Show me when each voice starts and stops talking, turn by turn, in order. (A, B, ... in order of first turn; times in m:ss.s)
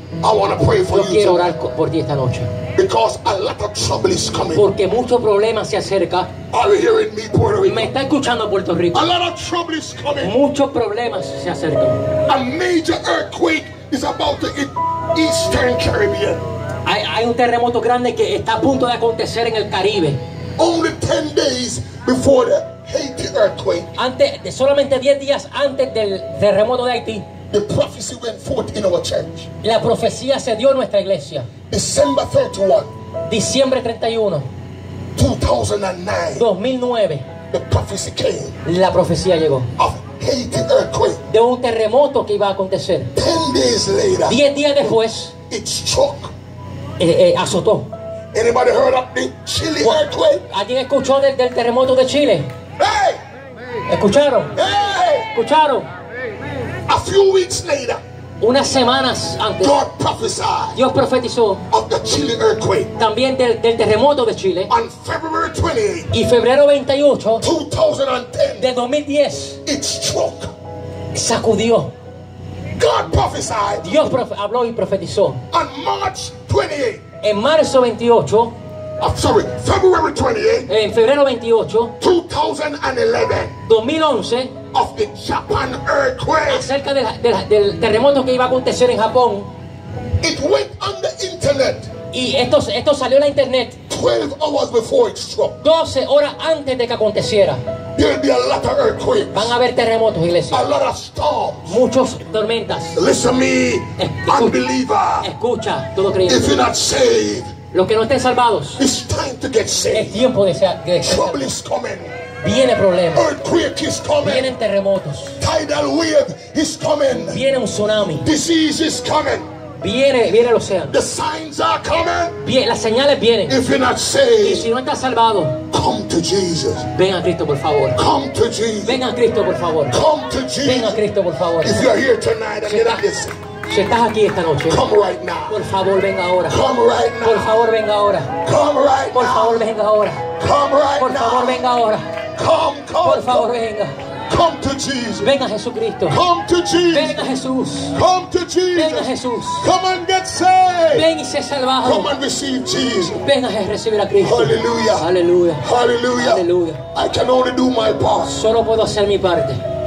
0:00.2-0:01.5 A
0:00.9-0:02.5 B
0:02.8-0:04.7 A
0:04.5-0:06.3 B
0:06.5-0:07.9 A
0:07.6-0:09.0 B
0:08.9-0:10.4 A
0:10.2-0:12.1 B
0:12.3-0:16.4 A
0:16.8-0:20.2 B
0:20.6-0:23.9 A
0:24.0-0:27.3 B
0:27.5-0:29.5 A
0:29.6-0:31.5 B
0:31.7-0:32.9 A
0:33.3-0:34.5 B
0:35.2-0:36.5 A
0:36.4-0:37.3 B
0:37.5-0:38.6 A
0:38.6-0:39.7 B
0:39.8-0:41.2 A
0:41.3-0:43.1 B
0:43.2-0:44.4 A
0:44.3-0:45.3 B
0:45.5-0:46.3 A
0:47.0-0:47.9 B
0:48.3-0:50.4 A
0:49.8-0:52.5 B
0:52.8-0:53.2 A
0:53.9-0:54.5 B
0:54.6-0:55.3 A
0:55.3-0:55.9 B
0:56.9-0:58.0 A
0:58.4-0:59.7 B
0:59.6-1:00.8 A
1:00.8-1:01.6 B
1:01.7-1:02.9 A
1:03.0-1:04.7 B
1:04.7-1:06.1 A
1:06.1-1:07.4 B
1:07.4-1:08.7 A
1:08.6-1:09.6 B
1:09.6-1:10.5 A
1:11.1-1:11.9 B
1:12.8-1:13.9 A
1:13.8-1:15.4 B
1:15.5-1:17.0 A
1:17.2-1:18.5 B
1:19.0-1:20.7 A
1:20.7-1:21.9 B
1:22.0-1:23.6 A
1:23.6-1:24.6 B
1:24.7-1:26.7 A
1:26.5-1:29.5 B
1:30.2-1:31.9 A
1:32.1-1:33.8 B
1:33.9-1:35.6 A
1:35.6-1:37.6 B
1:38.0-1:39.6 A
1:39.3-1:40.7 B
1:40.5-1:41.8 A
1:41.7-1:43.0 B
1:43.0-1:45.3 A
1:44.0-1:44.6 B
1:45.2-1:46.5 B
1:46.2-1:47.5 A
1:47.7-1:48.8 B
1:48.8-1:50.2 A
1:49.9-1:51.5 B
1:51.0-1:52.1 A
1:52.4-1:53.2 B
1:53.1-1:54.5 A
1:54.2-1:55.4 B
1:55.4-1:57.4 A
1:57.3-1:58.3 B
1:58.2-1:59.5 A
1:59.8-2:00.9 B
2:00.9-2:02.4 A
2:02.4-2:03.6 B
2:03.5-2:04.7 A
2:04.4-2:05.6 B
2:05.7-2:06.9 A
2:06.9-2:08.0 B
2:08.0-2:09.0 A
2:08.8-2:10.0 B
2:09.9-2:11.0 A
2:10.6-2:11.9 B
2:11.6-2:13.4 A
2:12.7-2:13.0 B
2:13.7-2:14.8 B
2:14.7-2:15.6 A
2:15.5-2:16.6 B
2:16.5-2:17.6 A
2:17.2-2:18.4 B
2:18.4-2:19.6 A
2:19.1-2:20.3 B
2:20.4-2:21.7 A
2:21.0-2:22.1 B
2:22.4-2:23.5 A
2:23.0-2:24.0 B
2:24.3-2:25.3 A
2:25.2-2:26.2 B
2:26.1-2:27.3 A
2:26.9-2:28.0 B
2:27.9-2:31.1 A
2:28.7-2:29.7 B
2:30.9-2:32.1 B
2:31.8-2:33.2 A
2:33.2-2:35.6 B
2:34.2-2:35.1 A
2:35.6-2:38.4 A
2:36.2-2:36.8 B
2:38.3-2:39.6 B